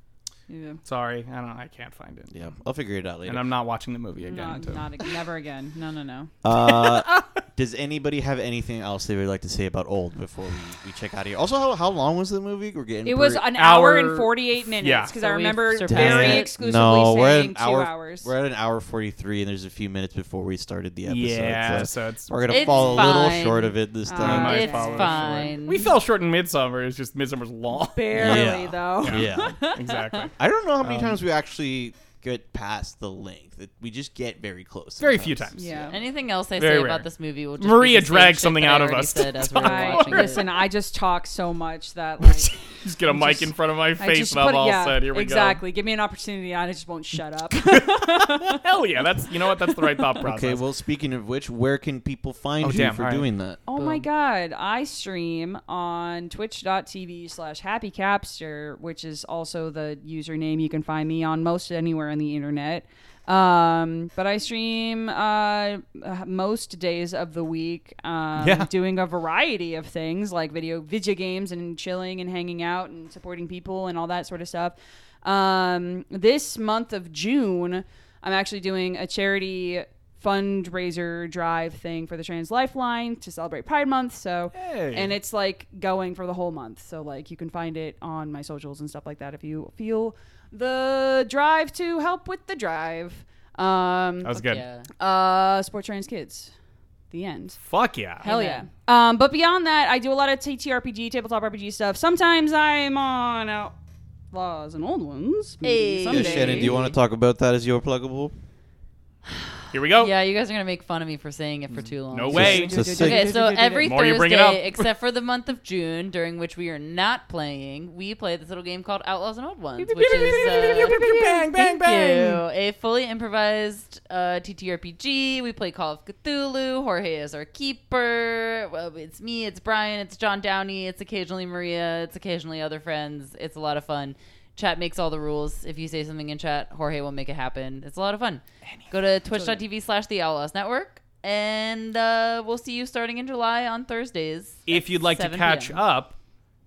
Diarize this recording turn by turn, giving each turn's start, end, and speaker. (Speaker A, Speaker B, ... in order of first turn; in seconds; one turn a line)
Speaker A: 0.5-0.8
Speaker B: 0.8-2.3
Speaker C: 2.3-3.5
Speaker B: 3.3-5.2
Speaker A: 4.2-6.3
Speaker C: 6.4-13.5
Speaker B: 6.5-7.4
Speaker A: 13.1-18.3
Speaker B: 13.6-15.2
Speaker D: 15.1-16.5
Speaker C: 15.9-24.7
Speaker B: 21.1-23.1
Speaker D: 22.5-25.9
Speaker A: 22.6-23.0
Speaker A: 24.1-25.6
Speaker B: 24.2-31.2
Speaker A: 27.7-30.3
Speaker C: 28.1-29.6
Speaker C: 30.4-35.8
Speaker B: 35.0-35.9
Speaker A: 35.6-36.0
Speaker D: 35.9-40.5
Speaker B: 36.6-37.1
Speaker B: 37.6-40.6
Speaker A: 39.5-42.5
Speaker B: 42.2-45.6
Speaker A: 43.1-50.2
Speaker B: 47.6-50.6
Speaker C: 50.2-53.6
Speaker B: 52.6-53.3
Speaker A: 53.7-96.5
Speaker D: 53.8-54.1
Speaker B: 68.4-68.7
Speaker B: 84.5-85.2
Speaker B: 94.2-94.6
Speaker D: 94.3-94.9
Speaker A: 97.1-97.6
Speaker B: 97.7-98.2
Speaker A: 98.2-103.7
Speaker D: 98.2-98.7
Speaker A: 104.3-106.8
Speaker D: 105.6-107.0
Speaker C: 106.1-108.3
Speaker B: 109.7-110.1
Speaker D: 109.9-145.8
Speaker B: 112.1-112.9
Speaker C: 112.3-113.3
Speaker A: 112.3-114.0
Speaker B: 113.8-114.9
Speaker B: 119.8-122.4
Speaker A: 120.1-121.2
Speaker B: 138.7-138.9
Speaker B: 144.7-146.2